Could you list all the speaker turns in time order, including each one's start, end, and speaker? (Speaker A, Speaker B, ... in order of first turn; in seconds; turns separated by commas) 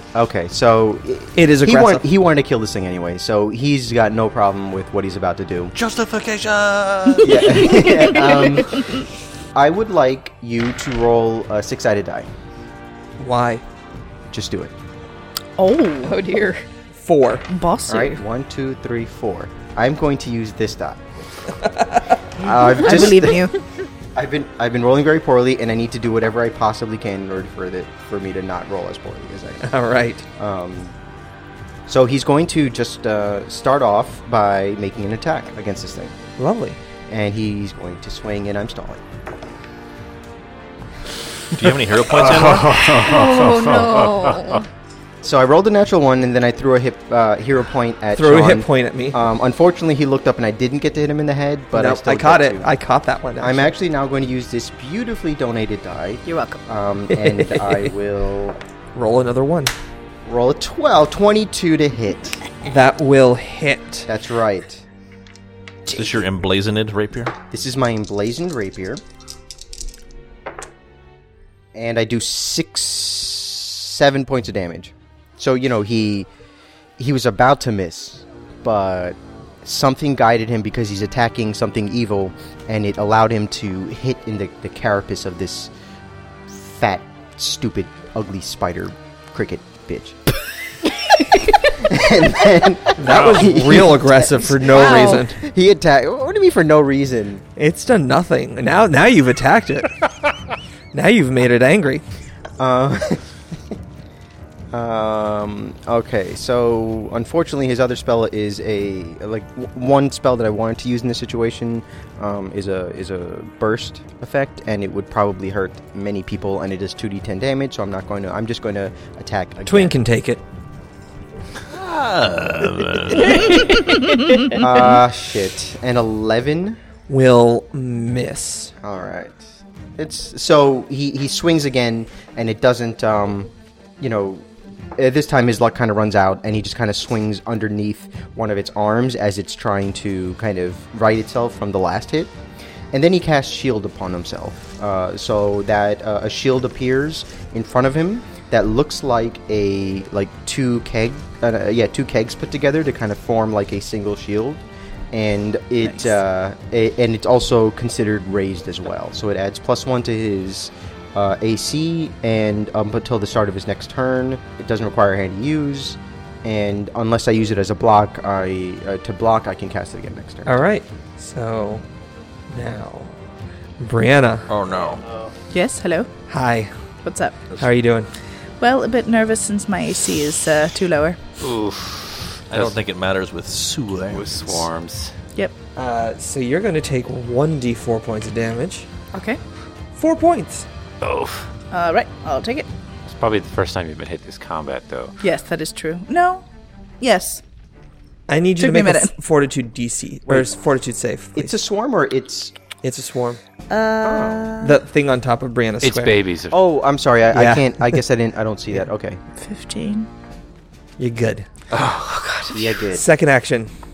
Speaker A: 0.1-5.7, Speaker B: 1.3-2.0, Speaker C: 5.7-7.8, Speaker D: 7.2-9.0, Speaker A: 7.2-8.8, Speaker A: 9.5-12.3, Speaker B: 13.2-13.6, Speaker A: 14.3-14.7, Speaker D: 15.6-16.1, Speaker E: 16.0-16.6, Speaker B: 16.9-17.5, Speaker D: 17.5-18.2, Speaker A: 17.9-21.1, Speaker A: 22.4-23.4, Speaker D: 22.7-23.6, Speaker A: 24.1-29.7, Speaker B: 29.6-30.2, Speaker A: 30.4-30.9, Speaker A: 31.9-36.1, Speaker B: 36.4-36.8, Speaker A: 37.1-39.0, Speaker C: 41.5-43.0, Speaker F: 42.1-44.5, Speaker E: 43.0-44.6, Speaker A: 45.2-52.7, Speaker B: 48.1-49.2, Speaker B: 51.7-53.7, Speaker A: 53.4-58.6, Speaker D: 56.2-56.6, Speaker B: 57.1-57.9, Speaker B: 58.9-59.7, Speaker A: 60.2-62.4, Speaker B: 62.6-64.1, Speaker A: 64.0-64.8, Speaker C: 65.9-67.3, Speaker A: 67.5-69.0, Speaker A: 71.7-76.3, Speaker A: 77.0-85.7, Speaker A: 86.5-90.2, Speaker A: 91.7-97.4, Speaker B: 93.0-95.3, Speaker C: 93.1-93.5, Speaker D: 94.8-95.2, Speaker B: 97.5-100.0, Speaker B: 100.9-102.0, Speaker A: 102.6-103.2, Speaker A: 104.7-119.9, Speaker B: 119.6-120.4, Speaker C: 121.7-123.8, Speaker D: 123.5-124.6, Speaker A: 124.5-126.8, Speaker B: 127.1-128.7, Speaker A: 128.8-129.4, Speaker A: 130.0-134.4, Speaker A: 135.0-142.3, Speaker A: 142.9-170.6, Speaker D: 155.8-156.2, Speaker B: 170.4-171.8, Speaker B: 172.5-173.1, Speaker B: 173.8-174.5, Speaker C: 174.5-175.0, Speaker D: 175.5-176.1, Speaker B: 176.3-176.7, Speaker D: 177.0-177.5, Speaker B: 177.6-178.1, Speaker D: 178.6-181.2, Speaker F: 181.4-182.8, Speaker C: 182.5-184.7, Speaker F: 184.1-185.2, Speaker B: 185.8-188.9, Speaker D: 189.1-189.4, Speaker B: 189.9-190.7, Speaker F: 191.0-191.5, Speaker D: 191.7-192.7, Speaker F: 193.1-195.1, Speaker D: 195.2-196.4, Speaker D: 197.0-197.4, Speaker B: 198.3-201.6, Speaker D: 198.6-199.1, Speaker A: 201.3-202.5, Speaker B: 202.8-203.4, Speaker D: 203.7-204.8, Speaker A: 204.0-204.5, Speaker B: 204.6-206.2, Speaker F: 205.8-206.6, Speaker A: 206.5-209.2, Speaker B: 207.3-208.0, Speaker D: 209.4-210.1, Speaker B: 211.0-211.5, Speaker D: 211.8-212.7, Speaker A: 212.5-213.1, Speaker B: 212.9-213.7